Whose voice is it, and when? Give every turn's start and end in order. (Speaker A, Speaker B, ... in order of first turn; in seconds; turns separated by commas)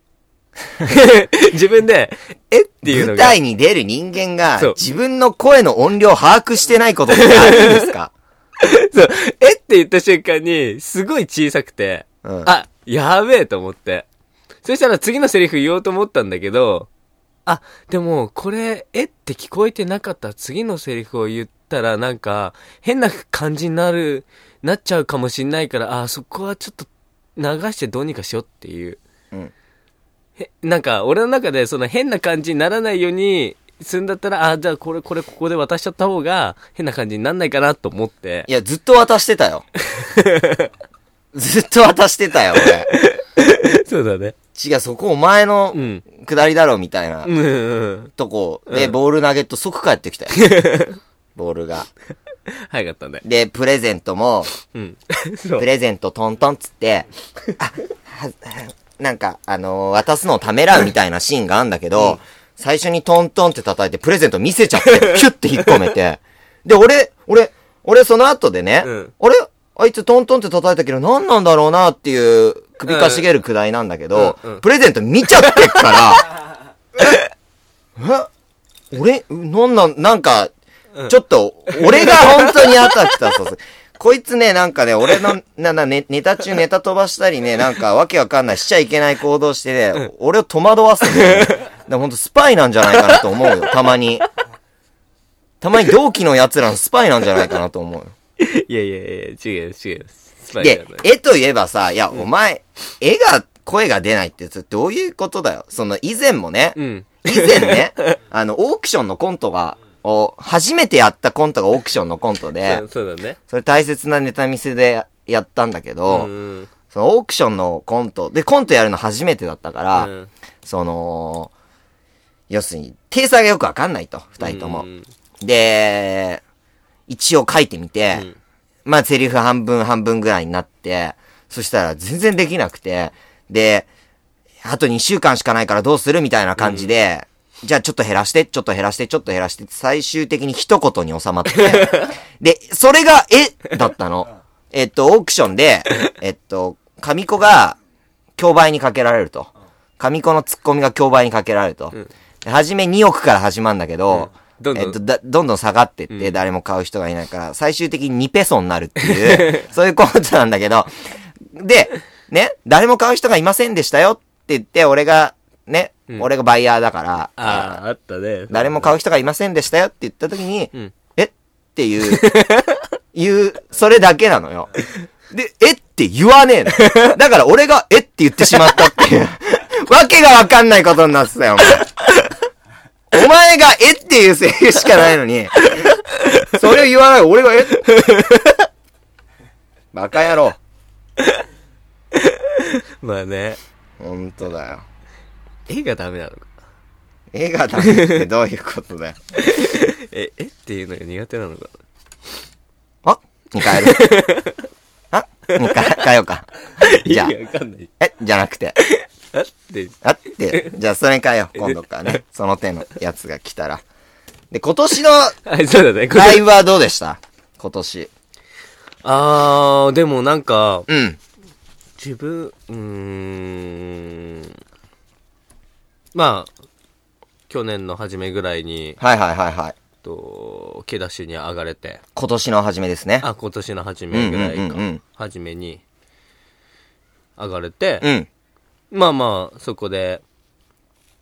Speaker A: 0.8-3.4, Speaker B: 2.9-8.1, Speaker A: 7.1-7.9, Speaker A: 8.6-14.1, Speaker B: 12.2-12.5, Speaker A: 14.6-16.9, Speaker A: 17.4-29.0, Speaker A: 30.4-38.5, Speaker B: 38.5-39.6, Speaker A: 39.9-40.7, Speaker B: 41.3-42.9, Speaker A: 42.6-44.3, Speaker B: 44.5-47.3, Speaker A: 45.7-46.0, Speaker A: 47.2-48.1, Speaker B: 48.1-50.5, Speaker A: 48.7-48.9, Speaker A: 50.3-51.0, Speaker B: 51.4-51.9, Speaker A: 52.5-53.2, Speaker B: 53.2-54.5, Speaker A: 54.7-55.7, Speaker B: 55.6-76.3, Speaker A: 64.8-65.8, Speaker A: 68.8-69.1, Speaker A: 72.8-73.2, Speaker A: 74.1-74.6, Speaker B: 78.0-78.3, Speaker B: 78.9-80.5, Speaker B: 81.1-94.2, Speaker A: 81.7-83.1, Speaker A: 91.1-91.7, Speaker A: 92.9-93.7, Speaker B: 95.6-98.1, Speaker A: 98.4-101.0, Speaker B: 100.6-112.8, Speaker A: 106.8-108.2, Speaker A: 112.6-113.4, Speaker B: 113.5-116.3, Speaker A: 116.1-116.7, Speaker B: 116.9-120.1, Speaker A: 120.0-120.3, Speaker B: 120.6-121.5, Speaker B: 122.5-124.9, Speaker A: 124.4-125.1, Speaker B: 125.4-126.4, Speaker B: 127.1-128.3, Speaker B: 128.8-133.9, Speaker B: 134.6-147.8, Speaker A: 136.6-136.9, Speaker A: 141.5-142.1, Speaker B: 148.4-160.9, Speaker A: 154.1-155.0, Speaker A: 159.0-159.6, Speaker B: 161.4-167.8, Speaker A: 167.4-168.9, Speaker B: 168.5-172.4, Speaker A: 172.0-172.8, Speaker B: 173.1-174.7, Speaker B: 175.3-182.0, Speaker A: 176.8-177.2, Speaker B: 183.1-185.9, Speaker A: 185.7-186.5, Speaker B: 186.5-187.9, Speaker A: 187.8-188.7, Speaker B: 189.9-190.6, Speaker A: 192.1-193.6, Speaker B: 194.0-194.8, Speaker A: 195.7-196.5, Speaker B: 197.3-199.2, Speaker A: 197.8-198.2, Speaker A: 199.4-201.8, Speaker B: 203.0-204.1, Speaker A: 203.6-204.6, Speaker B: 205.1-206.5, Speaker A: 205.5-206.0, Speaker A: 206.8-207.9, Speaker B: 207.0-207.3, Speaker B: 208.0-208.8, Speaker A: 208.8-210.7, Speaker B: 210.0-213.8, Speaker A: 211.6-212.2, Speaker B: 214.5-215.3, Speaker A: 215.4-216.4, Speaker B: 216.1-218.1, Speaker A: 219.0-220.9, Speaker B: 220.9-221.2, Speaker A: 222.0-224.5, Speaker A: 226.1-226.5, Speaker A: 227.5-229.0, Speaker B: 229.0-229.8, Speaker A: 230.0-232.0, Speaker B: 232.2-233.2, Speaker A: 233.2-235.8, Speaker B: 234.1-235.0, Speaker A: 237.4-238.1, Speaker B: 238.0-238.3, Speaker A: 238.9-240.2